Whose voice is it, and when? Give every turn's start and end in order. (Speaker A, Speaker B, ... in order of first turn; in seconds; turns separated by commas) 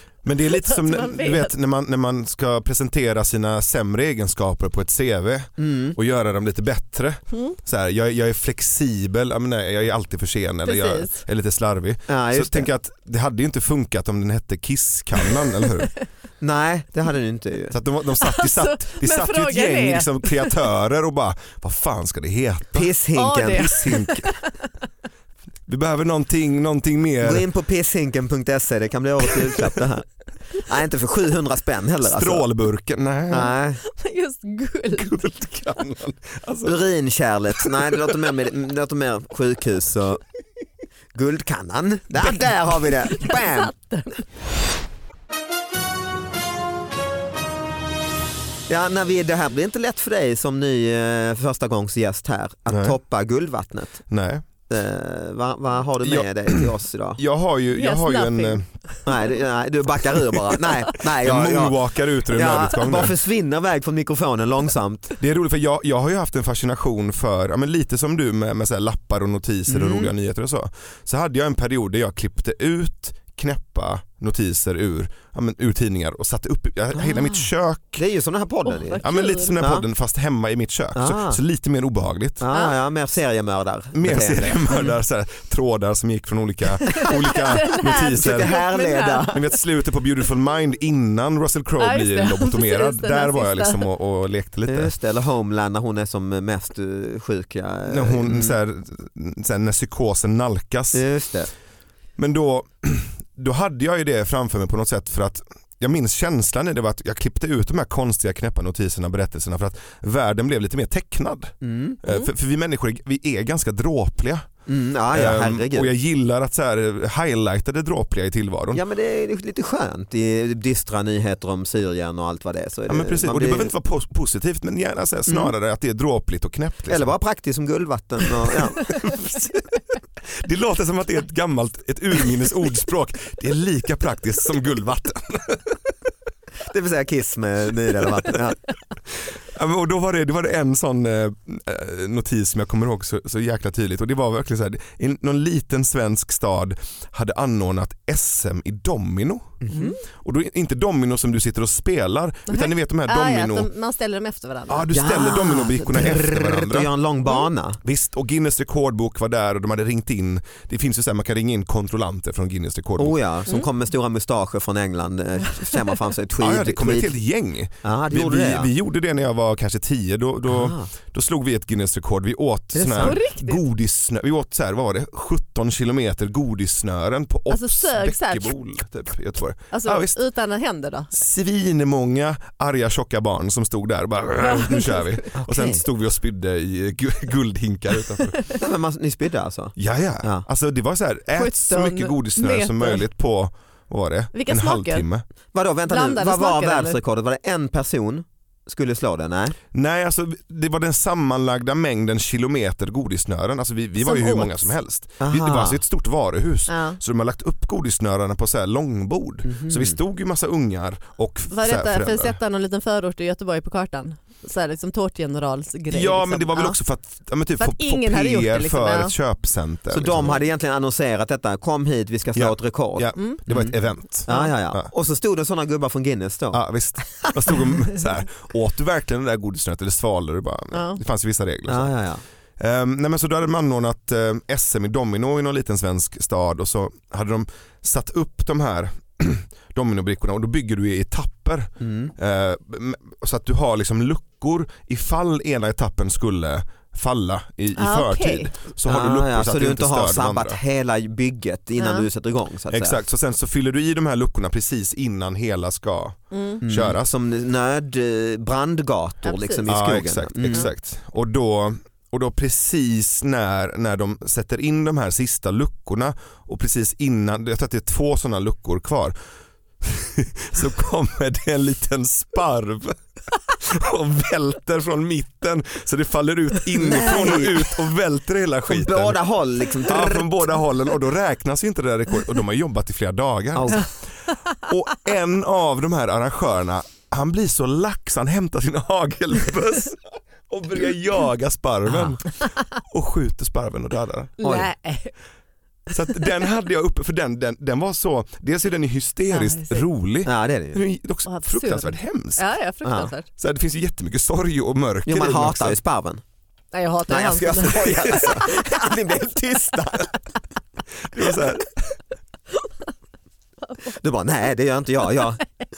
Speaker A: 0.2-15.9, Speaker B: 0.5-1.5, Speaker C: 5.6-6.0, Speaker B: 10.7-11.2, Speaker C: 12.1-12.7, Speaker C: 16.4-17.7, Speaker A: 17.7-22.9, Speaker B: 18.2-20.6, Speaker C: 22.7-23.9, Speaker B: 23.1-24.5, Speaker A: 23.5-24.3, Speaker A: 25.7-27.4, Speaker C: 27.2-32.5, Speaker A: 32.0-33.5, Speaker C: 33.3-33.8, Speaker B: 33.8-35.1, Speaker A: 35.0-36.8, Speaker C: 36.6-40.2, Speaker A: 37.6-38.1, Speaker C: 41.1-43.7, Speaker B: 43.0-44.2, Speaker C: 48.7-54.0, Speaker A: 52.7-52.9, Speaker A: 54.1-54.4, Speaker C: 54.7-57.2, Speaker A: 56.0-58.7, Speaker B: 57.7-59.1, Speaker C: 59.0-65.2, Speaker A: 61.0-63.1, Speaker A: 65.2-78.0, Speaker C: 69.7-70.1, Speaker C: 76.9-79.0, Speaker B: 78.7-79.5, Speaker A: 79.0-82.4, Speaker C: 79.6-79.8, Speaker C: 80.9-81.4, Speaker C: 82.4-85.0, Speaker B: 82.5-82.7, Speaker A: 83.9-88.5, Speaker B: 86.8-89.3, Speaker C: 87.9-89.5, Speaker A: 89.3-94.9, Speaker B: 91.8-93.8, Speaker C: 94.7-98.6, Speaker A: 97.9-101.0, Speaker C: 100.9-101.5, Speaker A: 102.2-114.5, Speaker C: 111.6-112.0, Speaker C: 114.7-115.9, Speaker A: 115.1-118.8, Speaker C: 118.7-123.7, Speaker A: 122.9-127.1, Speaker C: 125.3-125.5, Speaker C: 126.9-129.3, Speaker A: 128.9-129.5, Speaker A: 130.3-135.8, Speaker C: 136.6-138.6, Speaker A: 139.2-153.7, Speaker C: 149.6-149.9, Speaker B: 149.7-150.0, Speaker B: 152.5-154.9, Speaker A: 154.7-156.9, Speaker C: 154.9-157.8, Speaker A: 157.8-163.2, Speaker C: 163.0-167.1, Speaker B: 165.6-166.0, Speaker A: 166.4-180.2, Speaker C: 167.8-168.7, Speaker C: 170.5-170.9, Speaker C: 172.7-173.2, Speaker B: 173.0-173.6, Speaker B: 177.5-178.6, Speaker B: 179.7-181.1, Speaker A: 181.1-188.4, Speaker B: 184.4-185.3, Speaker C: 185.4-185.8, Speaker B: 188.2-188.5, Speaker C: 188.6-190.4, Speaker A: 189.8-195.2, Speaker B: 191.3-193.0, Speaker B: 194.3-195.1, Speaker C: 195.5-199.6, Speaker B: 195.9-197.0, Speaker A: 199.7-212.4, Speaker B: 204.0-204.7, Speaker C: 205.2-205.8, Speaker B: 206.7-207.0, Speaker C: 209.4-210.0, Speaker B: 211.5-216.8, Speaker A: 215.9-220.4, Speaker B: 217.6-219.1, Speaker C: 219.9-226.6, Speaker A: 222.3-224.9, Speaker B: 224.3-224.5, Speaker A: 226.5-231.9, Speaker B: 230.7-231.0, Speaker C: 231.7-232.2, Speaker A: 232.6-250.6, Speaker C: 241.8-242.1, Speaker B: 247.8-248.5, Speaker C: 248.8-253.0, Speaker B: 251.8-252.1, Speaker A: 252.7-257.1, Speaker B: 256.3-256.6, Speaker C: 256.6-260.7, Speaker B: 259.2-259.7, Speaker A: 259.7-269.1, Speaker A: 269.8-279.2, Speaker C: 276.8-277.7, Speaker C: 278.7-280.5, Speaker A: 279.8-283.9, Speaker C: 283.5-283.9, Speaker A: 284.5-294.3, Speaker B: 294.4-295.1, Speaker C: 294.4-294.7, Speaker A: 295.9-302.4, Speaker B: 299.3-299.9, Speaker C: 300.2-300.8, Speaker B: 301.3-303.3, Speaker C: 302.8-303.1, Speaker A: 303.3-305.8, Speaker C: 305.1-306.2, Speaker B: 306.7-308.7, Speaker C: 307.1-310.2, Speaker A: 311.1-312.0, Speaker B: 313.6-313.9, Speaker C: 313.9-315.4